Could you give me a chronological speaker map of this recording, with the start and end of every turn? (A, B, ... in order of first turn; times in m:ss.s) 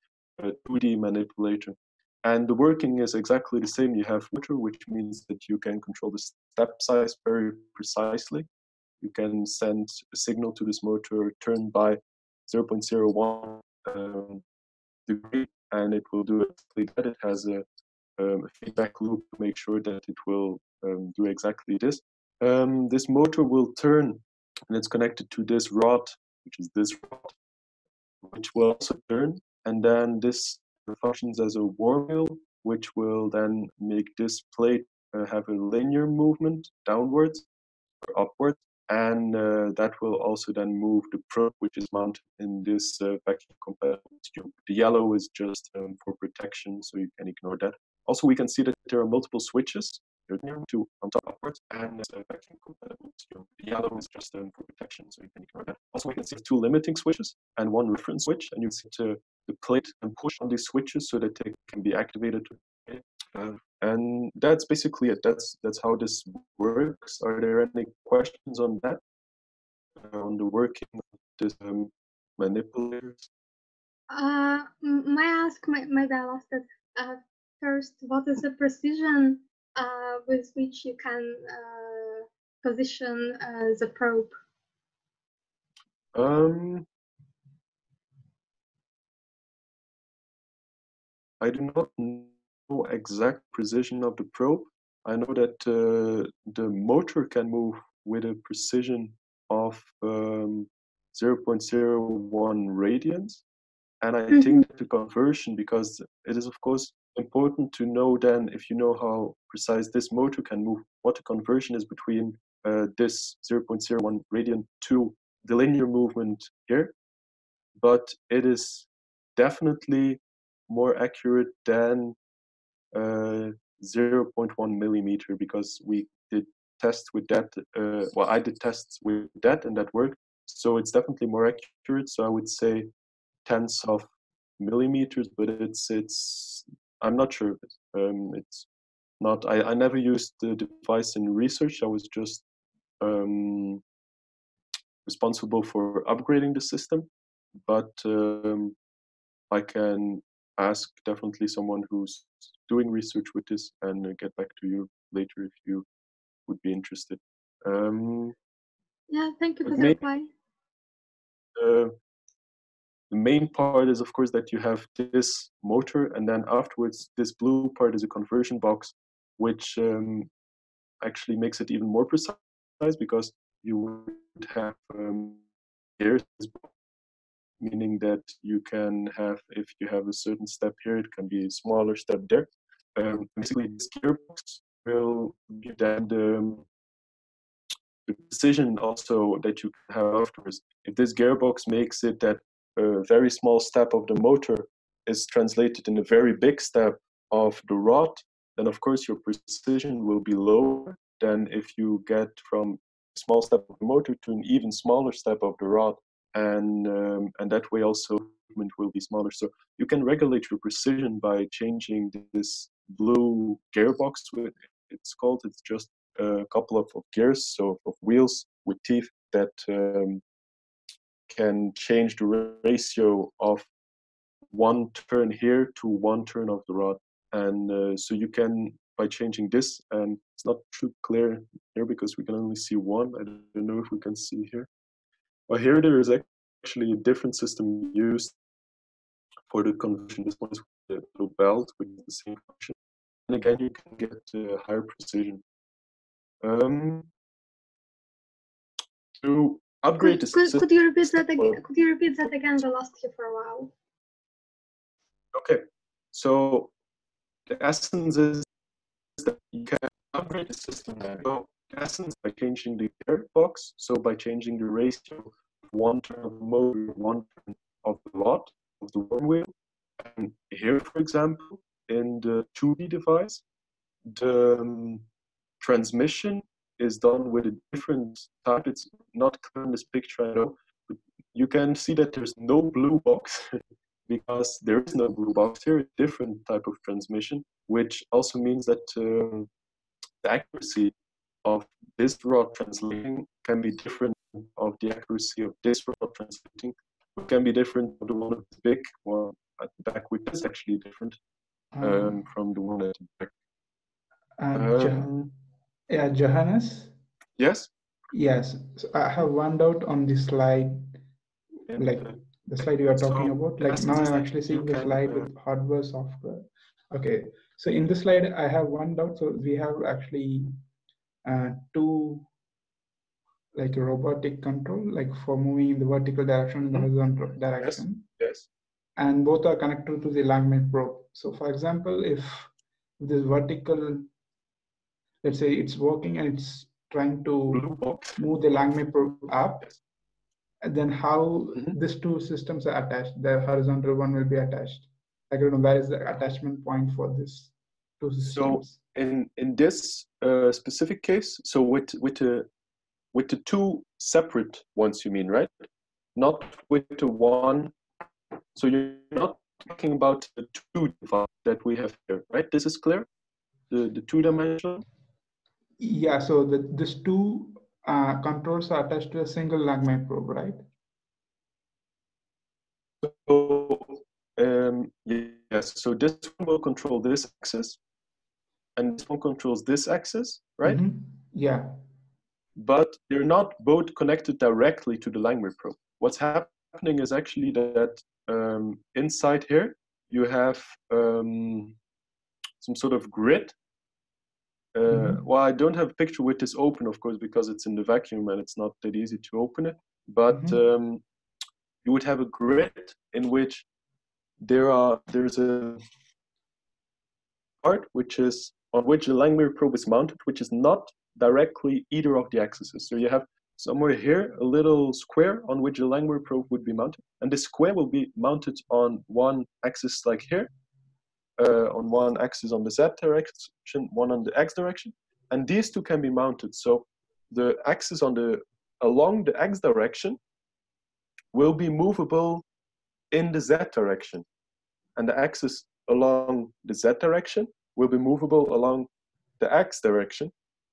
0:00.4-0:08.5 A
0:09.0-0:14.4 A
0:15.1-0:17.6 A
0:18.2-0:27.4 A
0:28.2-0:37.4 A
0:38.0-1:09.0 A
1:10.0-1:13.3 A
1:14.1-1:24.4 B
1:26.1-1:26.9 A
1:31.4-1:43.4 A
1:44.0-1:56.9 A
1:57.8-2:02.2 A
2:02.9-2:12.9 A
2:13.4-2:14.1 A
2:14.6-2:18.7 A
2:19.2-2:22.4 A
2:23.0-2:23.8 A
2:25.1-2:27.1 A
2:27.6-2:28.8 A
2:29.5-2:35.8 A
2:36.5-2:38.4 A
2:39.1-2:40.3 B
2:39.6-2:40.0 A
2:41.6-2:41.9 A
2:43.1-2:50.3 A
2:51.0-2:55.4 A
2:56.0-2:56.7 A
2:57.6-3:06.6 A
3:08.1-3:40.2 A
3:41.3-3:43.7 A
3:44.5-3:54.7 A
3:55.5-3:58.3 A
3:59.5-4:02.8 A
4:03.3-4:05.4 A
4:06.4-4:07.1 A
4:09.2-4:11.6 A
4:10.0-4:13.7 B
4:15.3-4:15.6 A
4:16.1-4:16.7 A
4:17.5-4:18.4 A
4:19.2-4:33.4 A
4:34.1-4:35.0 A
4:35.6-4:49.5 A
4:50.2-4:50.9 A
4:51.4-5:01.2 A
5:01.8-5:02.2 C
5:01.8-5:03.3 A
5:04.4-5:05.2 C
5:04.5-5:05.3 A
5:05.9-5:06.9 C
5:07.4-5:07.7 A
5:08.1-5:11.0 C
5:11.7-5:12.2 A
5:11.8-5:20.6 C
5:12.9-5:15.3 A
5:21.2-5:22.3 C
5:23.5-5:28.1 C
5:27.6-5:28.5 A
5:29.0-5:34.1 C
5:35.2-5:37.6 C
5:37.5-5:38.2 A
5:38.2-5:39.7 C
5:40.6-5:48.8 C
5:48.3-5:52.5 A
5:53.1-5:55.5 A
5:56.2-5:57.7 A
5:58.6-6:03.1 A
6:03.7-6:04.8 A
6:05.8-6:10.7 C
6:13.0-6:17.8 A
6:18.8-6:20.8 A
6:20.6-6:21.8 C
6:22.6-6:31.8 A
6:32.6-6:33.5 A
6:34.8-6:41.0 A
6:34.9-6:35.2 C
6:40.3-6:40.6 C
6:41.8-6:43.6 A
6:44.4-6:45.8 A
6:47.6-7:00.5 A
7:01.4-7:10.2 A
7:11.3-7:12.4 A
7:13.1-7:14.2 A
7:15.0-7:18.9 A
7:19.4-7:20.3 A